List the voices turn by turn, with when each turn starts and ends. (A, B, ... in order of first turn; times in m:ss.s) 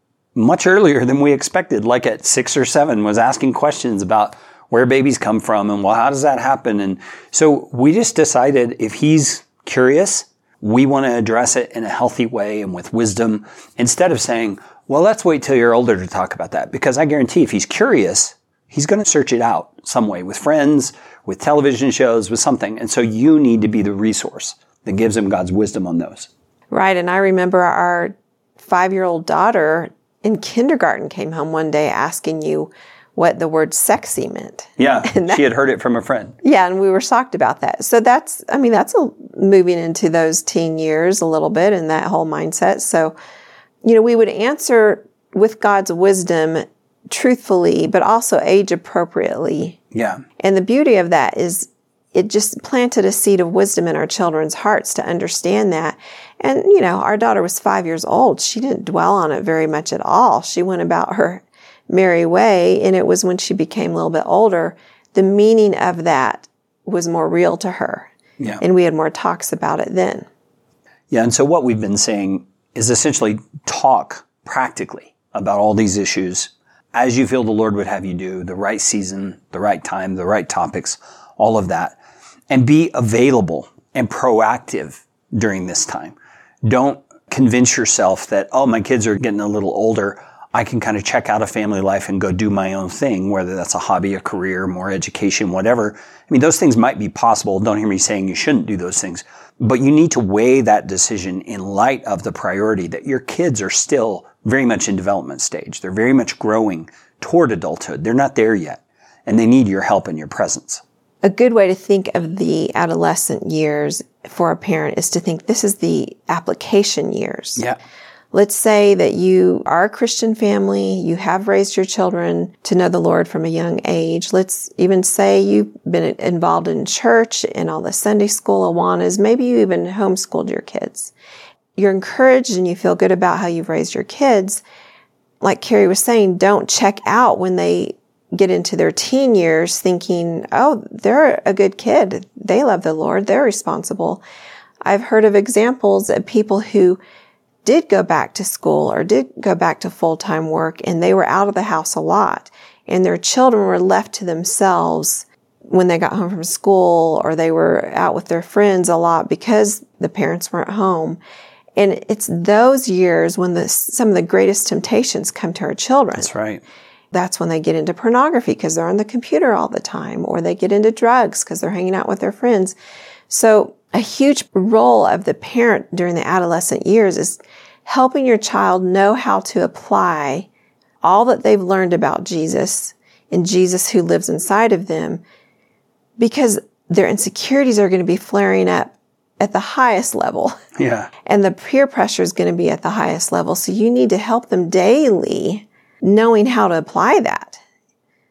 0:00.3-0:26.3 A
0:26.7-0:35.4 B
0:34.8-0:36.3 A
0:36.4-0:43.1 B
0:43.8-0:49.8 B
0:49.9-0:50.2 A
0:50.4-1:08.1 B
1:08.6-1:10.3 B
1:11.1-1:22.0 A
1:22.5-1:50.8 A
1:51.2-1:57.6 B
1:58.3-2:11.1 B
2:11.8-2:14.6 B
2:15.4-2:24.2 B
2:24.8-2:27.0 B
2:27.6-2:41.2 B
2:41.8-2:46.3 B
2:46.2-2:46.6 A
2:47.1-2:52.8 B
2:53.3-3:00.5 B
3:01.0-3:05.2 B
3:06.2-3:10.5 B
3:10.8-3:11.1 A
3:11.2-3:17.6 B